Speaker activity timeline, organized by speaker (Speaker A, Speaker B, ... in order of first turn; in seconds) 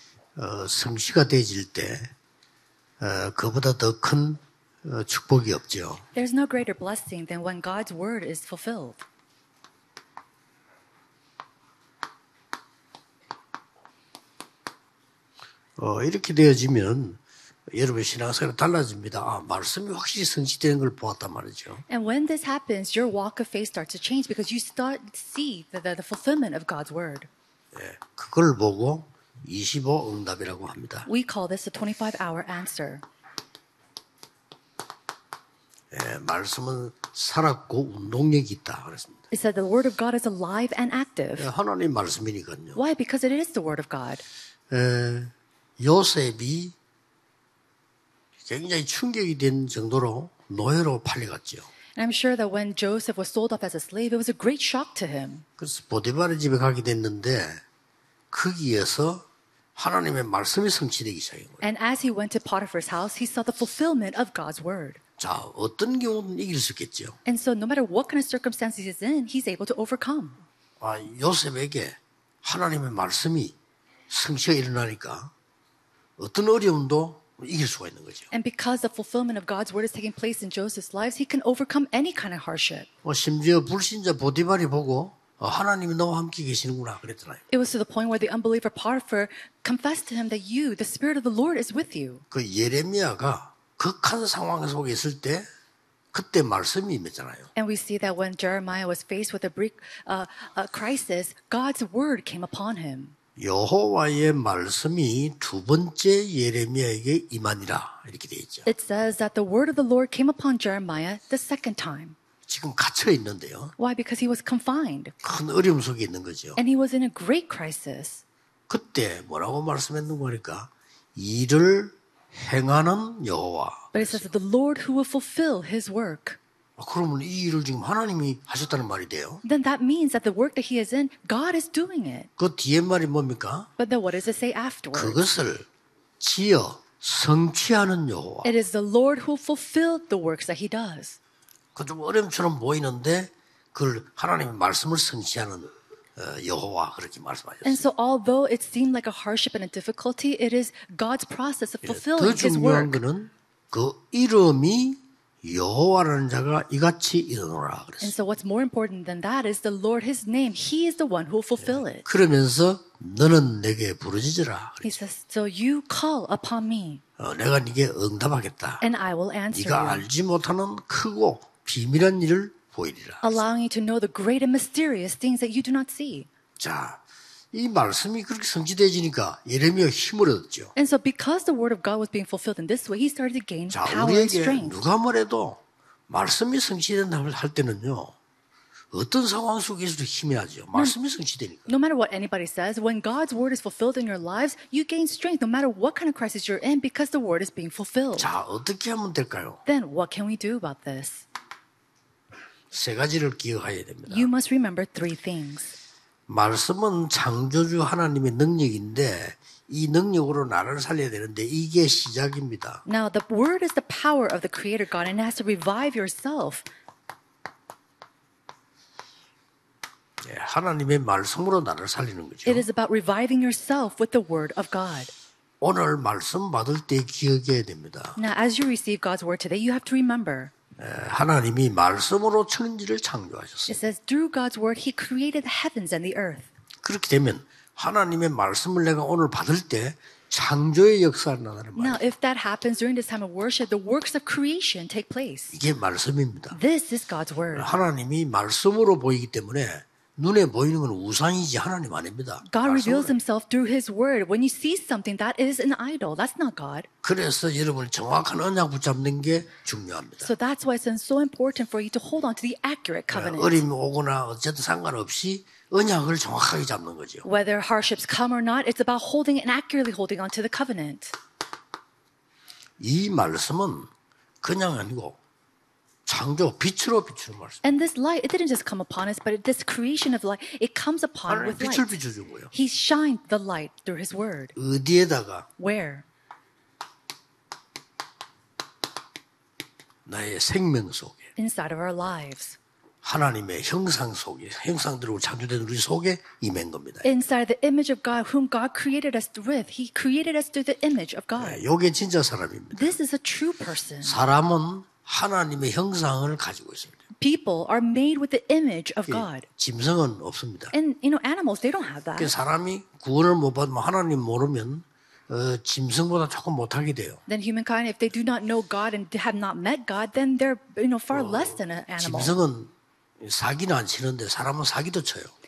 Speaker A: 0.4-2.1, 3.0-6.0, 15.8-17.2, 17.7-21.8, 27.7-31.1, 35.9-39.2, 41.4-42.8, 44.7-46.7, 48.5-51.7, 55.6-57.6, 58.3-59.2, 59.8-61.6, 65.2-67.2, 70.8-73.5, 74.1-75.3, 76.2-78.3, 83.0-87.4, 92.3-95.5, 96.1-97.5, 103.4-108.7, 112.5-113.7, 115.2-116.6, 118.7-124.3, 126.8-129.4, 132.4-133.7, 134.9-135.7, 136.2-138.5, 141.8-147.8, 151.8-158.1, 161.6-165.0, 167.2-168.8, 169.5-173.4, 176.6-177.0, 177.5-180.7, 183.7-188.1, 188.9-191.7, 198.2-199.6, 202.7-204.3, 206.3-212.8, 220.2-222.7, 225.6-228.2, 230.8-233.8, 236.8-242.1, 245.5-246.6, 247.5-253.1, 257.0-260.3, 263.1-267.2, 272.8-273.9, 274.4-275.2, 276.1-277.6, 281.3-282.5, 284.6-285.5, 290.1-291.3, 293.0-297.1, 301.4-302.9, 304.0-307.0, 309.1-310.7, 312.2-317.2, 321.1-325.3
Speaker B: 6.1-9.0, 21.9-27.3, 31.1-33.0, 39.3-41.5, 42.8-44.2, 51.9-55.5, 61.6-65.0, 67.2-70.4, 78.3-82.9, 87.5-92.2, 97.5-103.2, 108.7-112.2, 113.8-115.2, 116.6-118.2, 123.9-126.4, 129.4-132.3, 133.8-135.2, 138.4-141.2, 147.6-153.0, 158.0-162.1, 164.8-167.0, 168.8-170.1, 173.2-176.3, 180.7-184.8, 191.7-198.3, 199.7-201.2, 204.1-205.8, 212.8-216.7, 222.4-225.1, 228.2-230.5, 233.7-236.5, 241.8-245.5, 246.5-247.7, 252.4-256.9, 260.2-263.6, 267.2-271.1, 277.6-281.9, 282.5-284.5, 285.6-286.0, 291.4-292.6, 297.0-301.6, 302.7-304.2, 307.2-309.4, 310.7-312.3, 317.3-322.3